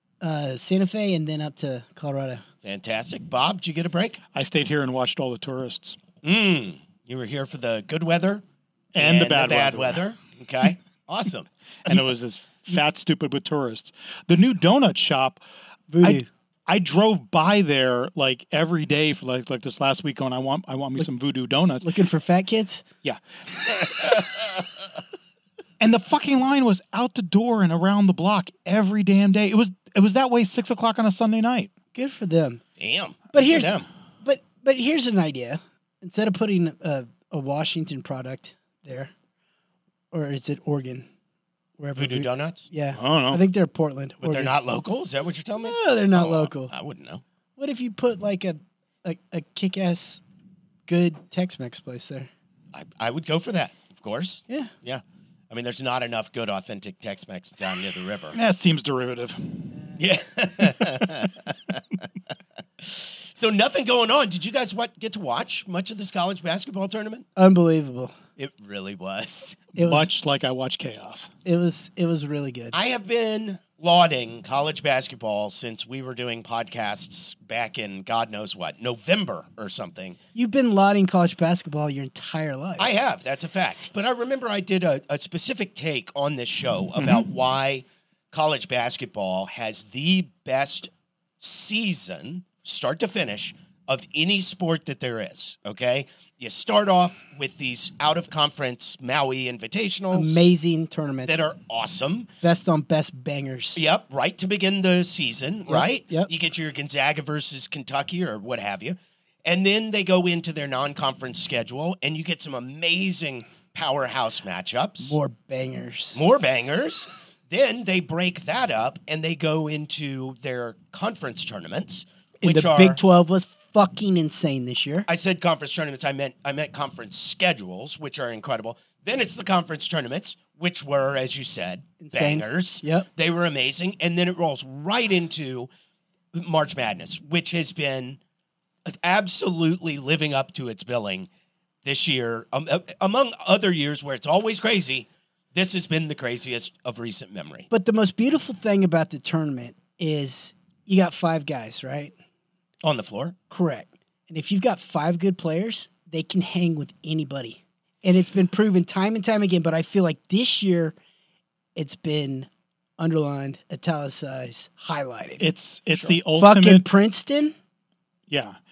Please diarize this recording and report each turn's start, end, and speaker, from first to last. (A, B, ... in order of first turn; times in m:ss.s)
0:00.2-0:02.4 A
0:02.6-0:04.2 B
0:04.3-0:06.0 C
0:06.2-0:08.4 B
0:08.9-0:10.0 C
0:09.0-0:12.0 B
0:11.9-0:15.4 C
0:15.9-0:16.3 A
0:16.0-0:21.9 C
0:21.8-0:22.8 A
0:23.0-0:24.2 C
0:25.8-0:31.7 C
0:31.9-0:32.6 A
0:32.8-0:33.9 B
0:33.3-0:39.1 A
0:40.1-0:41.1 A
0:41.8-0:44.5 A
0:42.0-0:42.6 B
0:42.9-0:43.4 C
0:44.2-0:47.2 B
0:45.6-0:46.7 A
0:47.6-0:50.2 A
0:50.9-0:52.3 A
0:52.7-0:58.4 B
0:58.3-0:59.7 C
1:00.0-1:01.8 B
1:02.8-1:07.2 B
1:07.4-1:08.2 A
1:08.4-1:09.6 B
1:09.8-1:10.1 A
1:09.8-1:11.3 C
1:11.4-1:12.7 A
1:12.7-1:20.2 B
1:20.3-1:22.9 A
1:22.8-1:40.4 B
1:27.0-1:27.2 C
1:40.1-1:41.4 A
1:41.2-1:42.3 B
1:42.4-1:43.8 A
1:43.7-1:55.2 B
1:45.7-1:46.3 A
1:55.0-1:56.2 A
1:56.1-2:03.0 B
2:02.4-2:05.1 A
2:05.1-2:15.7 B
2:12.0-2:13.1 A
2:16.3-2:18.2 B
2:18.8-2:21.3 B
2:21.8-2:27.7 B
2:27.7-2:32.1 A
2:32.8-2:33.4 B
2:33.5-2:41.0 A
2:41.7-2:45.5 A
2:45.4-2:46.8 C
2:46.3-2:47.5 A
2:48.3-2:48.6 C